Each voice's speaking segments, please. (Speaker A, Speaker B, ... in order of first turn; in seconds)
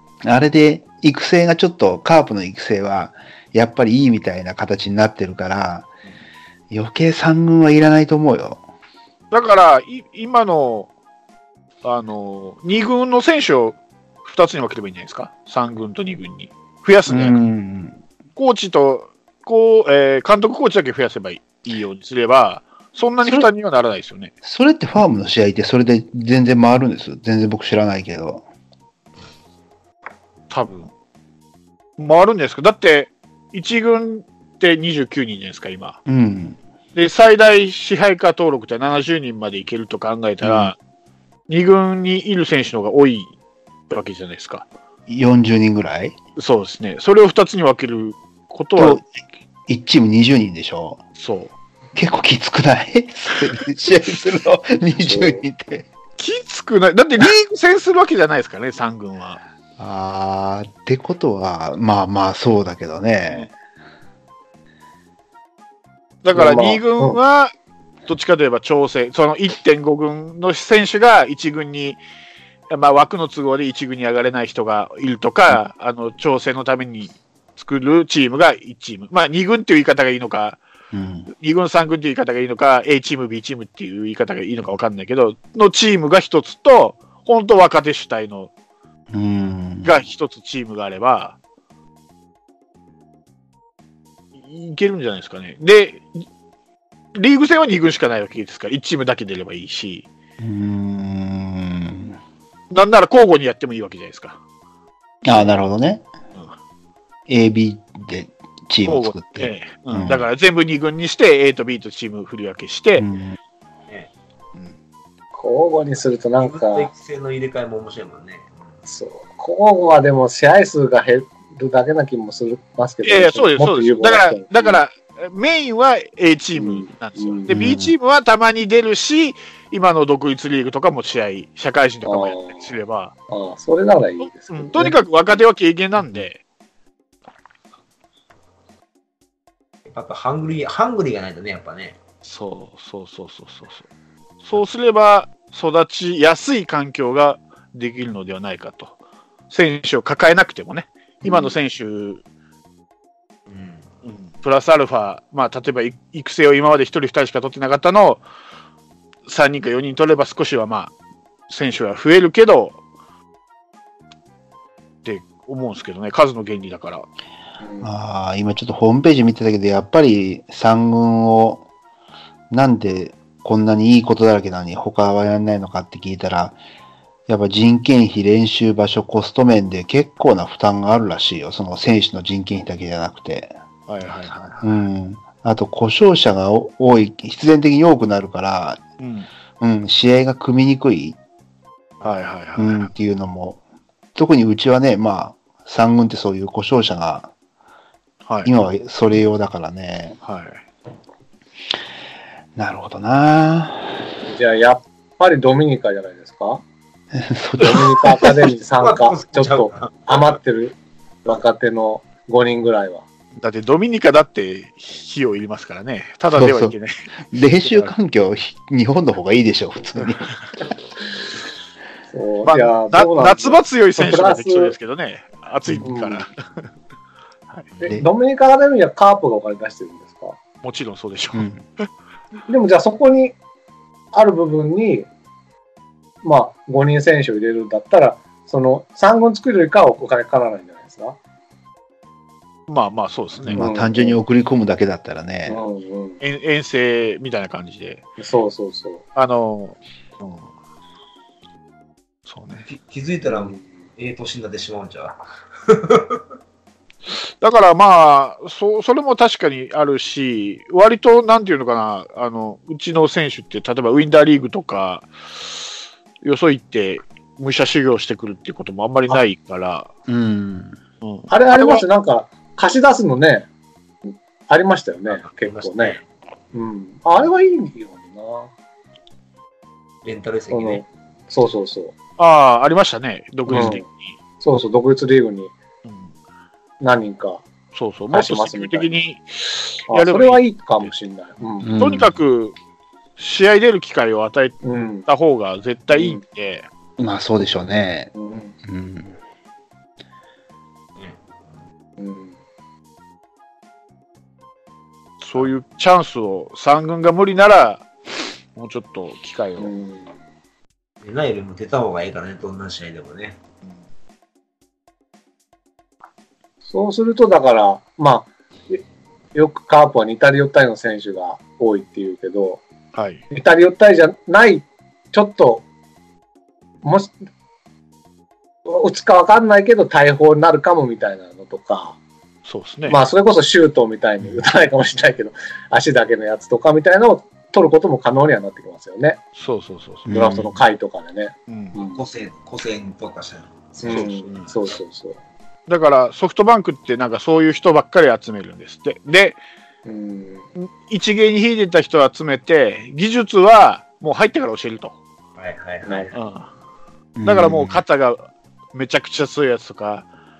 Speaker A: 0.2-5.9, 6.7-8.6, 17.1-18.0, 23.2-23.5, 24.4-28.4, 36.0-36.6, 40.4-40.7, 45.1-46.2, 48.8-49.0, 49.7-51.0, 51.9-55.9, 59.8-63.5, 80.9-81.3, 89.1-90.0, 100.4-102.2, 105.2-106.0, 107.3-110.2, 113.0-113.4, 127.5-127.9, 167.8-171.6, 172.5-176.6, 177.3-183.5, 184.6-188.8, 189.6-191.2, 192.6-193.6, 194.1-197.3, 198.4-200.2, 202.6-204.1, 207.1-208.3, 216.3-216.7, 217.3-220.3, 231.3-231.6, 243.4-245.6, 270.1-270.8, 283.5-283.8, 291.6-292.1, 297.0-298.1, 298.6-299.1, 340.1-340.6, 357.2-357.8
Speaker B: 9.3-10.9, 11.8-17.4, 18.4-24.3, 30.5-30.9, 32.0-36.0, 36.9-40.8, 41.5-43.3, 43.9-44.7, 46.4-49.0, 51.2-51.5, 56.2-59.4, 66.2-67.5, 68.1-72.0, 72.7-80.6, 81.3-88.5, 89.8-91.3, 94.4-96.2, 97.1-100.1, 102.7-104.4, 108.8-113.0, 123.0-133.1, 134.2-136.4, 142.2-143.8, 144.4-148.9, 149.5-152.2, 154.0-158.2, 159.3-160.9, 161.5-162.8, 165.0-167.1, 183.9-184.8, 189.0-189.3, 192.0-192.9, 198.2-198.5, 200.2-200.6, 213.4-216.9, 217.6-217.9, 220.0-220.4, 222.4-226.7, 230.6-231.9, 242.7-243.7, 246.2-248.0, 249.1-250.5, 252.3-252.7, 257.4-269.9, 271.0-271.8, 282.2-284.1, 285.8-286.1, 287.7-290.9, 291.8-292.6, 293.2-296.7, 305.2-307.9, 308.5-309.7, 322.9-323.2, 332.4-333.0, 339.3-340.1, 341.5-341.8, 343.9-344.5, 345.7-349.4, 350.6-355.0, 356.1-356.5, 357.2-360.1
Speaker C: 55.0-55.4, 66.3-67.2, 115.3-116.9, 118.8-124.8, 126.5-127.5, 132.0-132.7, 133.3-135.0, 151.2-151.6, 167.6-167.9, 204.3-206.6, 207.6-213.0, 222.1-224.7, 225.8-226.2, 227.8-230.4, 232.5-233.3, 234.1-235.1, 236.2-241.2, 243.6-244.2, 245.5-246.2, 248.2-249.0, 253.3-253.6, 271.3-273.5, 274.1-276.0, 276.5-278.5, 280.5-281.9, 283.5-283.8, 284.4-285.5, 286.8-287.4, 288.1-288.9, 289.9-291.7, 294.6-295.1, 295.9-296.2, 298.1-298.5, 302.0-302.3, 309.6-310.1, 316.7-318.8, 319.3-322.6, 323.3-325.6, 326.8-327.1, 328.6-332.0, 332.9-339.2, 340.1-342.0, 343.8-345.2, 349.9-350.4, 355.8-356.1
Speaker D: 116.4-118.8, 139.9-142.0, 153.5-153.9, 208.7-210.4, 252.6-256.2, 275.1-276.0, 280.0-280.8, 311.0-313.4, 341.9-344.4, 355.4-356.1